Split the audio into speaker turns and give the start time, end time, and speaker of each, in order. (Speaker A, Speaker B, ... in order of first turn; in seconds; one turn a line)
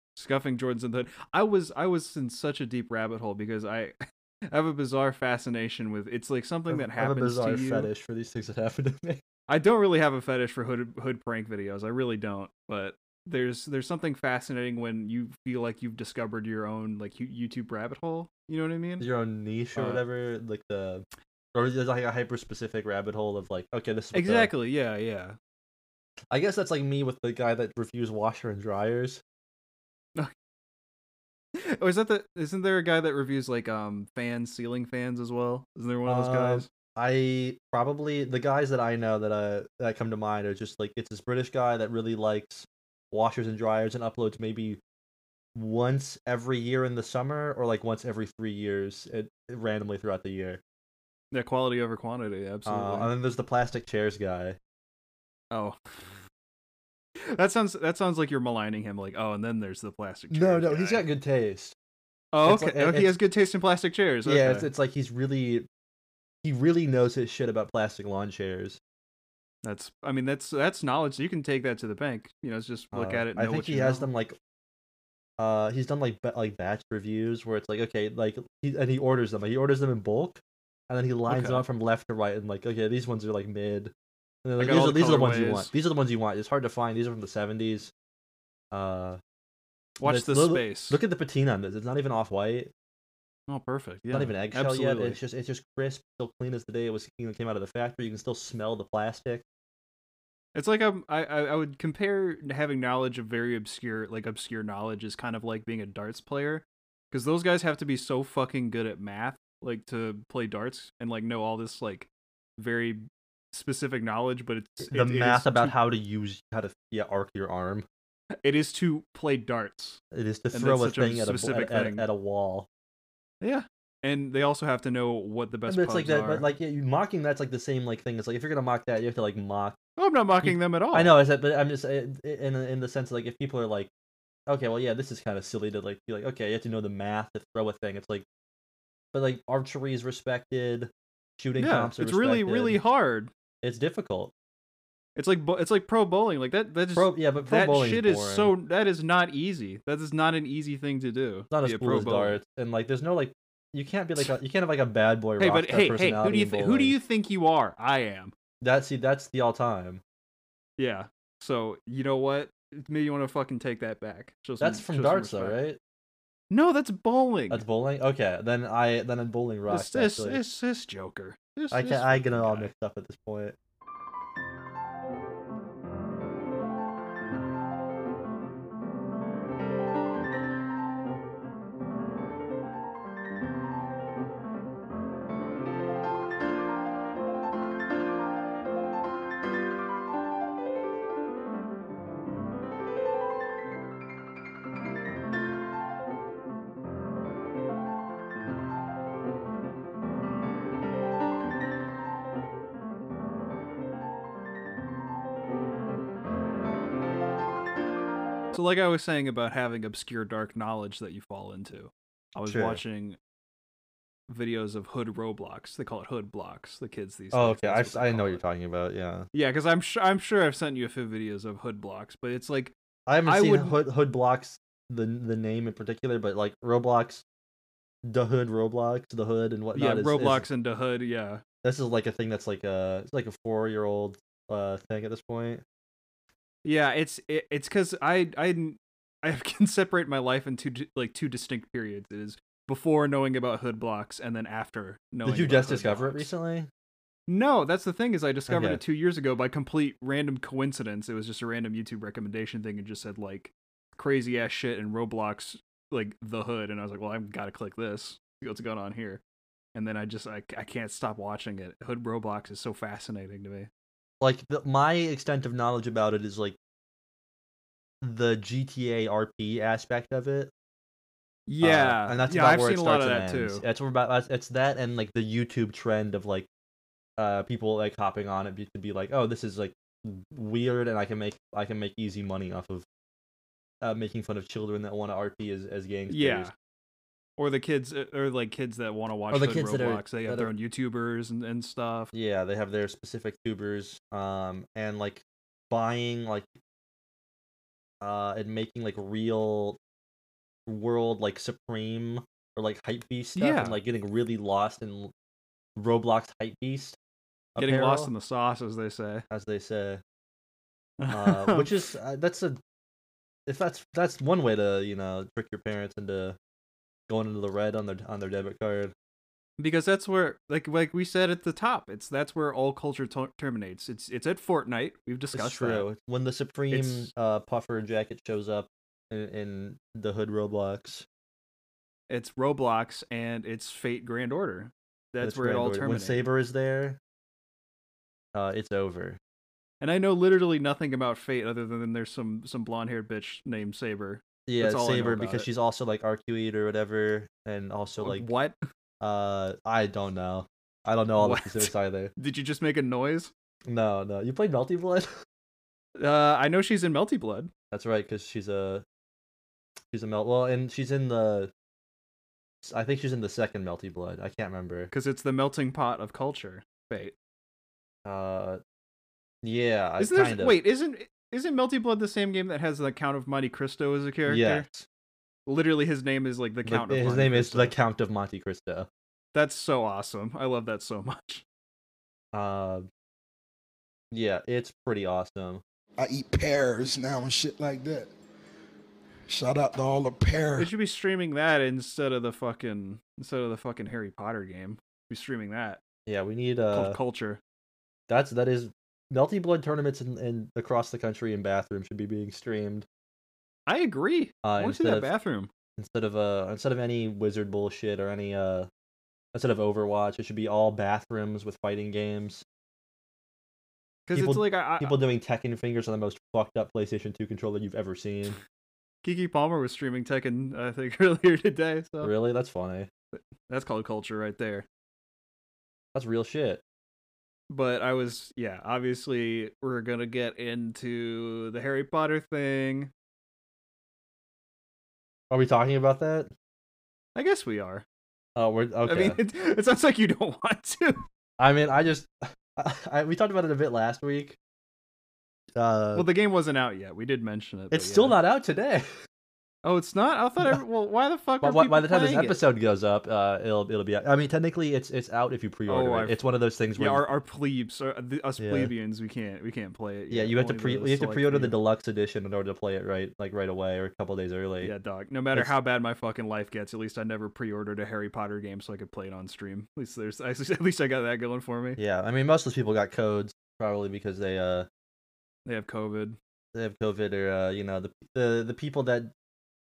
Speaker A: 0.1-4.0
Speaker A: 4.5-7.9
Speaker B: 6.7-9.2
Speaker A: 9.5-19.1
Speaker B: 19.0-24.5
Speaker A: 19.7-20.0
Speaker A: 24.1-25.4
Speaker B: 26.3-29.2
Speaker A: 31.6-36.7
Speaker B: 36.0-44.8
Speaker B: 45.5-50.6
Speaker A: 51.3-53.1
Speaker B: 52.6-54.6
Speaker A: 55.5-56.1
Speaker A: 57.2-61.0
Speaker B: 60.3-61.7
Speaker A: 62.3-64.7
Speaker B: 62.4-63.2
Speaker B: 64.2-65.7
Speaker B: 66.4-68.8
Speaker A: 69.6-74.0
Speaker B: 72.9-74.3
Speaker B: 75.4-83.9
Speaker A: 81.3-81.6
Speaker B: 84.4-87.9
Speaker A: 84.6-85.7
Speaker B: 88.7-89.2
Speaker A: 90.0-91.0
Speaker B: 90.0-92.7
Speaker A: 93.5-95.2
Speaker B: 94.1-99.4
Speaker A: 100.5-115.7
Speaker B: 114.8-117.8
Speaker A: 118.4-120.0
Speaker B: 120.1-122.7
Speaker A: 120.5-122.0
Speaker A: 123.4-126.5
Speaker B: 125.7-129.8
Speaker A: 130.0-131.2
Speaker B: 130.4-133.9
Speaker B: 134.5-138.2
Speaker B: 139.1-142.8
Speaker A: 141.6-143.3
Speaker B: 143.6-144.3
Speaker A: 145.2-152.4
Speaker B: 146.9-148.5
Speaker B: 151.5-156.9
Speaker A: 155.4-158.3
Speaker B: 158.6-160.0
Speaker A: 160.8-165.6
Speaker B: 164.6-165.8
Speaker A: 166.5-167.6
Speaker B: 167.5-170.4
Speaker A: 169.7-172.7
Speaker B: 171.7-173.6
Speaker A: 208.5-213.2
Speaker B: 212.4-212.8
Speaker A: 214.3-218.4
Speaker B: 217.3-219.3
Speaker A: 219.3-222.7
Speaker B: 223.1-227.2
Speaker A: 223.2-223.8
Speaker B: 228.1-230.4
Speaker A: 229.7-231.4
Speaker B: 231.6-235.6
Speaker A: 236.6-246.3
Speaker B: 245.2-246.7
Speaker A: 247.3-259.2
Speaker B: 248.5-248.8
Speaker A: 259.7-263.7
Speaker B: 264.2-266.6
Speaker B: 268.0-270.5
Speaker A: 271.5-273.6
Speaker B: 271.6-276.5
Speaker B: 277.2-282.8
Speaker B: 283.8-286.5
Speaker A: 286.1-286.5
Speaker A: 287.4-292.1
Speaker B: 289.3-290.5
Speaker B: 292.1-296.5
Speaker B: 298.0-299.8
Speaker B: 300.7-305.1
Speaker A: 303.4-303.8
Speaker B: 305.8-307.0
Speaker B: 307.5-308.1
Speaker A: 307.6-309.2
Speaker B: 309.3-310.0
Speaker A: 311.0-311.7
Speaker B: 311.1-312.6
Speaker B: 313.5-316.4
Speaker B: 317.1-318.9
Speaker A: 319.6-325.9
Speaker B: 325.3-331.1
Speaker A: 326.7-327.1
Speaker A: 332.1-336.2
Speaker B: 335.2-337.0
Speaker B: 338.3-339.2
Speaker A: 339.8-345.5
Speaker B: 344.5-348.3
Speaker A: 348.0-348.6
Speaker B: 349.0-352.1
Speaker A: 351.2-353.3
Speaker B: 353.7-355.1
Speaker A: 356.0-357.5
Speaker B: 357.7-358.8
Speaker B: 359.9-361.5
Speaker B: 362.6-364.9
Speaker A: 364.9-367.1
Speaker B: 368.0-368.6
Speaker B: 369.4-370.6
Speaker A: 370.0-374.6
Speaker B: 374.3-374.9
Speaker A: 375.4-377.7
Speaker B: 376.6-378.9
Speaker A: 379.3-381.4
Speaker B: 382.3-382.9
Speaker B: 384.1-385.6
Speaker C: 386.0-388.1
Speaker C: 389.3-390.7
Speaker A: 390.6-395.8
Speaker B: 396.1-397.0
Speaker A: 396.7-397.4
Speaker B: 398.1-402.9
Speaker A: 403.7-405.5
Speaker B: 404.4-405.1
Speaker B: 405.8-408.7
Speaker B: 409.3-412.4
Speaker A: 414.1-415.0
Speaker B: 414.1-418.4
Speaker A: 419.0-422.1
Speaker B: 422.0-422.9
Speaker A: 423.1-424.6
Speaker B: 425.9-426.6
Speaker A: 427.5-432.9
Speaker B: 435.3-436.3
Speaker A: 437.1-437.8
Speaker B: 438.4-439.2
Speaker A: 438.9-441.0
Speaker B: 441.4-444.4
Speaker B: 445.6-446.1
Speaker A: 445.9-448.1
Speaker B: 447.7-448.9
Speaker A: 449.6-452.4
Speaker B: 451.4-457.1
Speaker A: 455.7-456.2
Speaker A: 456.8-461.6
Speaker B: 458.4-458.7
Speaker B: 460.1-464.7
Speaker A: 464.6-471.8
Speaker B: 471.8-474.7
Speaker A: 475.4-476.2
Speaker B: 476.5-479.1